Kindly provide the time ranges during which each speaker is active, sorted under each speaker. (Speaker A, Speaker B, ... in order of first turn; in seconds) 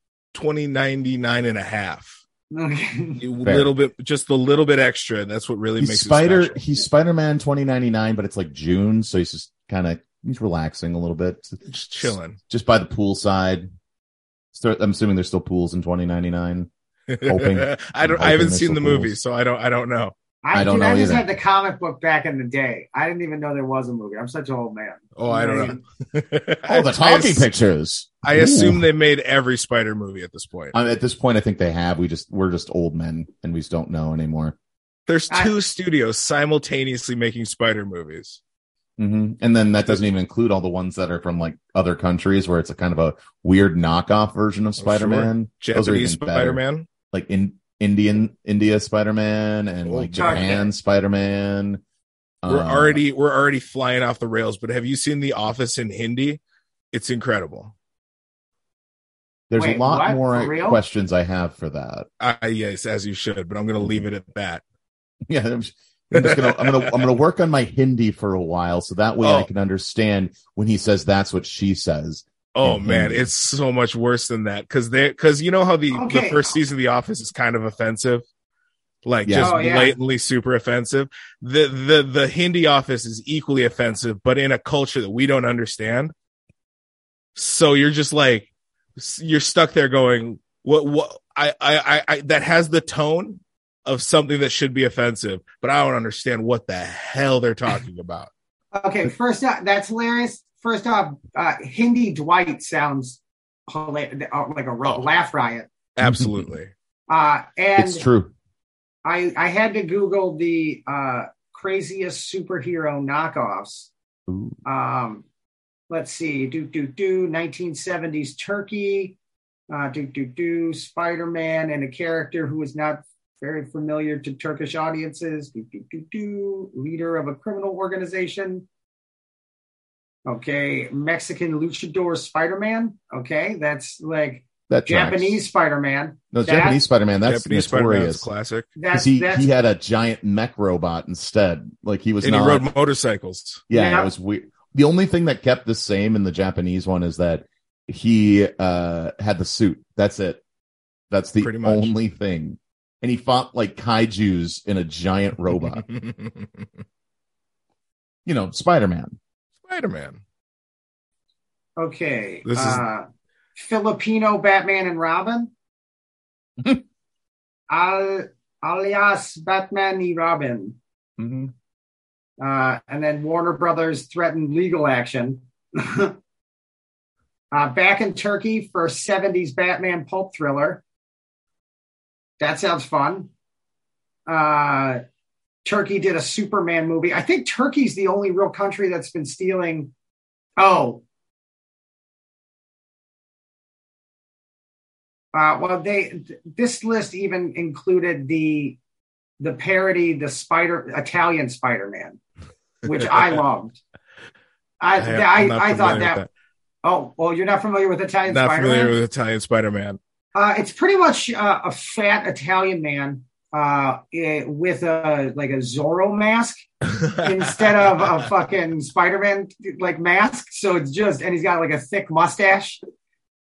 Speaker A: 0.3-2.2, 3.2-6.6, 11.7-12.4, 17.1-20.1, 25.2-27.5, 28.2-30.7, 35.1-38.4, 44.8-46.9, 49.9-50.5, 52.5-56.4, 56.9-57.7, 62.2-64.6, 66.1-67.1, 69.2-69.5, 72.5-78.2, 79.0-86.1, 87.4-98.3, 106.0-106.7, 137.2-138.7, 142.2-143.6, 151.4-151.9, 155.7-156.7, 159.7-160.2, 162.4-162.8, 205.0-206.3, 208.3-210.0, 216.9-218.2
Speaker B: 2.5-3.2, 20.4-25.8, 50.2-50.7, 59.5-60.8, 75.9-76.5, 79.4-79.9, 98.8-105.7, 107.1-108.0, 109.0-113.9, 114.7-115.2, 115.9-119.2, 119.7-128.7, 130.2-136.8, 138.8-139.5, 143.7-144.1, 161.8-165.5, 167.7-170.8, 172.4-176.2, 177.5-180.8, 182.4-183.3, 184.3-185.0, 185.7-189.9, 190.6-191.0, 195.3-198.8, 199.4-202.2, 202.8-203.8, 204.8-206.2, 206.8-208.9, 210.3-216.7, 217.2-222.8
Speaker C: 3.4-3.7, 5.8-13.7, 14.5-16.7, 17.3-19.1, 20.5-21.3, 26.7-28.9, 30.7-34.6, 39.0-46.6, 47.1-51.8, 52.4-53.0, 59.5-62.1, 65.3-73.3, 79.2-79.5, 106.0-106.5, 107.8-108.3, 114.3-114.6, 134.7-135.4, 136.3-138.3, 138.9-142.7, 143.7-150.4, 151.1-155.8, 158.2-159.2, 171.2-171.5